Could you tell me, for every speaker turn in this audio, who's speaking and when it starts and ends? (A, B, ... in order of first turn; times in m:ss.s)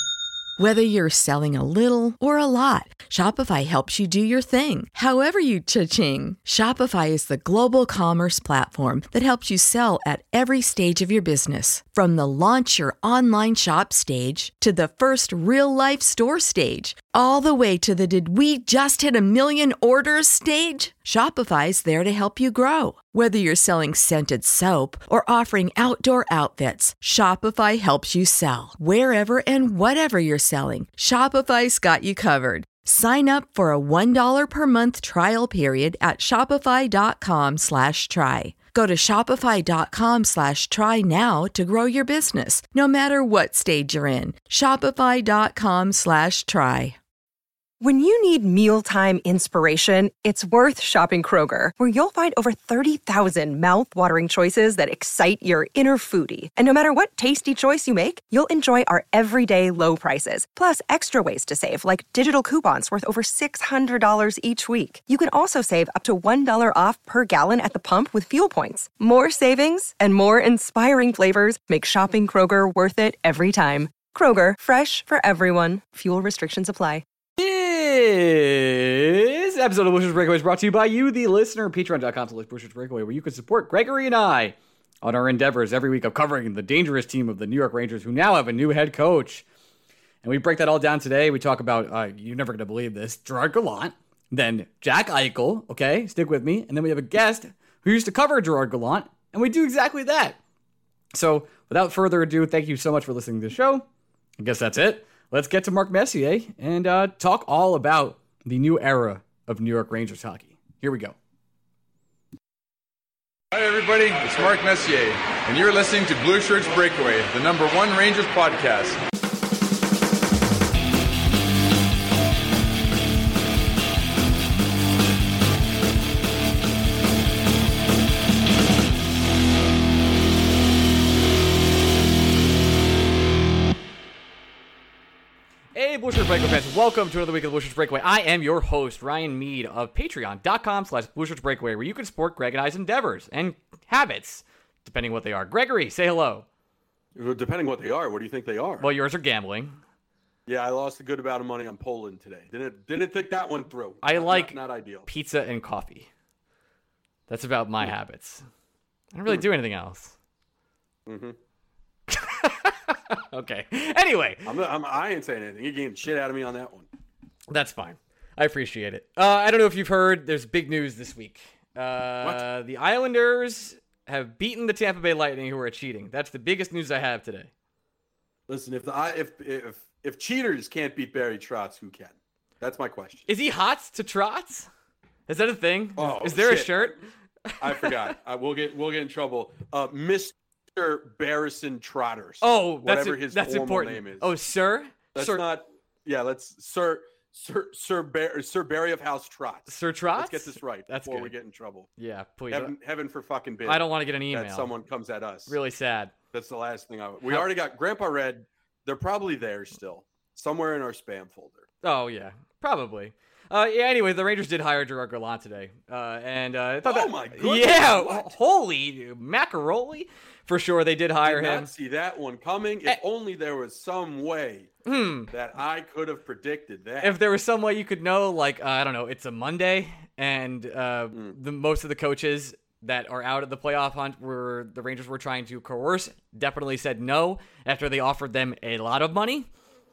0:00.6-0:47.0 A
0:47.8-1:17.0 B
1:17.4-1:29.4 C
1:30.2-1:40.4 C
1:41.1-1:43.8 C
1:44.4-1:51.2 C
1:53.5-1:59.0 D
2:15.7-2:26.4 C
2:27.1-2:28.9 E
2:28.8-2:29.8 C
2:30.5-2:35.1 E
2:34.0-2:36.1 C
2:37.3-2:38.4 C
2:39.1-2:40.2 C
2:41.0-2:41.4 E
2:42.1-2:44.5 C
2:44.4-2:46.9 E
2:47.5-2:57.5 C
2:58.5-3:03.3 E
3:03.3-3:04.7 C
3:05.3-3:07.0 C
3:06.0-3:07.0 E
3:07.5-3:08.0 C
3:07.6-3:14.3 E
3:12.4-3:15.4 C
3:15.1-3:21.9 E
3:19.7-3:21.3 C
3:22.0-3:22.7 C
3:22.5-3:25.6 E
3:23.6-3:24.7 C
3:25.5-3:26.1 C
3:26.3-3:31.6 E
3:31.8-3:41.7 C
3:36.8-3:38.3 E
3:41.2-3:47.2 E
3:44.8-3:45.3 C
3:47.0-3:59.5 C